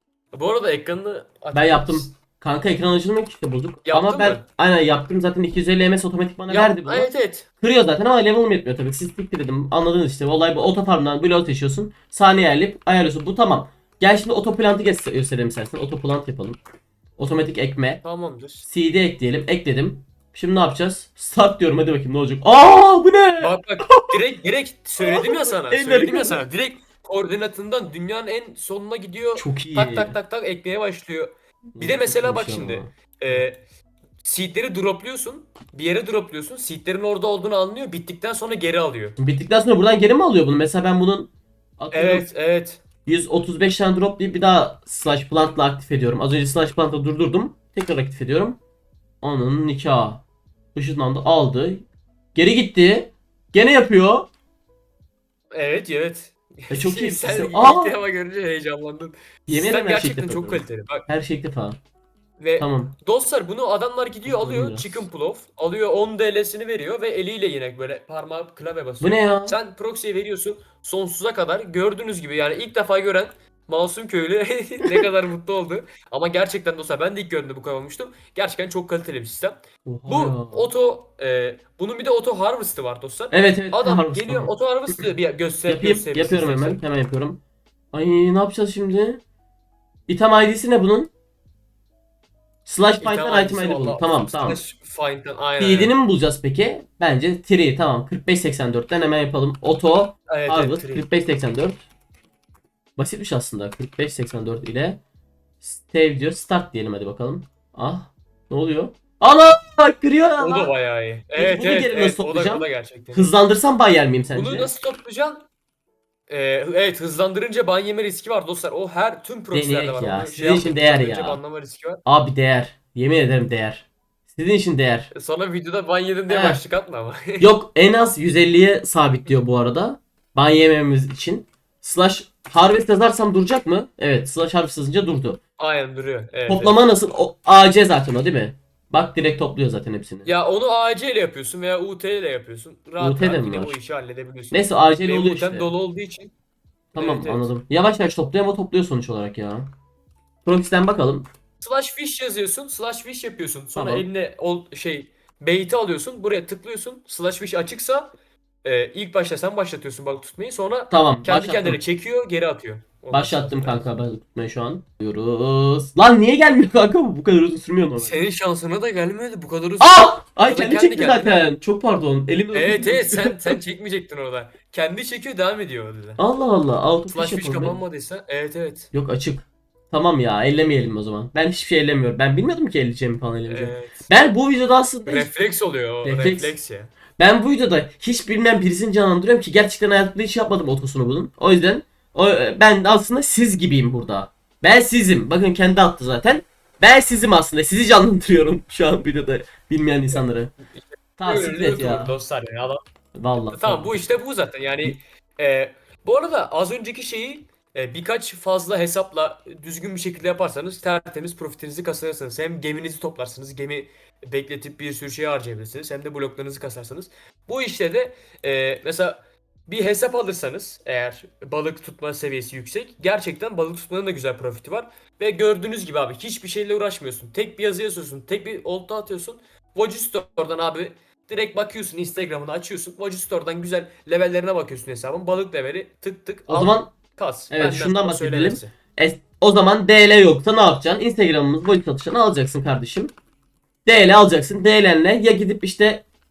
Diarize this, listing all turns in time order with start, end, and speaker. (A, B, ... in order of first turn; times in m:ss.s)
0:00.3-0:02.1 A
0:01.5-0:07.1 B
0:03.8-0:04.4 A
0:06.5-0:07.5 A
0:07.6-0:16.6 B
0:17.2-0:18.0 B
0:18.0-0:18.7 A
0:18.6-0:24.2 B
0:23.4-0:33.6 A
0:25.0-0:26.4 B
0:29.4-0:30.2 B
0:31.8-0:33.4 B
0:34.2-0:39.2 A
0:39.2-0:42.3 B
0:41.9-0:42.8 A
0:43.1-0:48.6 B
0:49.2-0:54.3 B
0:55.5-1:01.1 A
0:56.7-0:58.0 B
0:59.5-1:01.8 B
1:02.4-1:26.8 A
1:02.6-1:03.0 B
1:04.3-1:05.1 B
1:09.0-1:09.6 B
1:19.9-1:20.7 B
1:23.3-1:25.1 B
1:25.7-1:27.4 B
1:27.9-1:29.2 B
1:30.1-1:31.1 B
1:32.7-1:34.6 B
1:33.0-1:35.9 A
1:35.6-1:41.8 B
1:40.3-1:41.0 A
1:43.0-1:45.0 B
1:45.6-1:50.7 B
1:50.4-1:53.3 A
1:51.4-1:54.7 B
1:54.3-1:55.5 A
1:56.3-2:02.0 A
1:59.5-2:01.4 B
2:02.0-2:05.1 B
2:05.1-2:07.5 A
2:06.3-2:06.6 B
2:07.4-2:15.4 B
2:15.6-2:16.8 A
2:16.5-2:20.3 B
2:20.2-2:26.3 A
2:23.0-2:23.8 B
2:24.5-2:25.7 B
2:26.9-2:27.5 A
2:27.0-2:29.7 B
2:30.4-2:31.3 B
2:31.6-2:38.1 A
2:33.8-2:34.1 B
2:38.6-2:43.9 A
2:40.9-2:41.8 B
2:43.1-2:48.2 B
2:48.0-2:51.5 A
2:49.8-2:53.6 B
2:52.5-2:56.2 A
2:56.2-2:57.8 B
2:57.1-2:58.9 A
2:58.9-3:05.3 B
3:03.5-3:04.1 A
3:05.1-3:06.9 A
3:06.0-3:06.6 B
3:07.2-3:20.5 B
3:21.2-3:22.2 B
3:21.2-3:22.8 A
3:23.2-3:24.0 B
3:23.5-3:58.7 A
3:56.5-3:56.9 B
3:57.5-4:03.1 B
4:03.9-4:06.0 B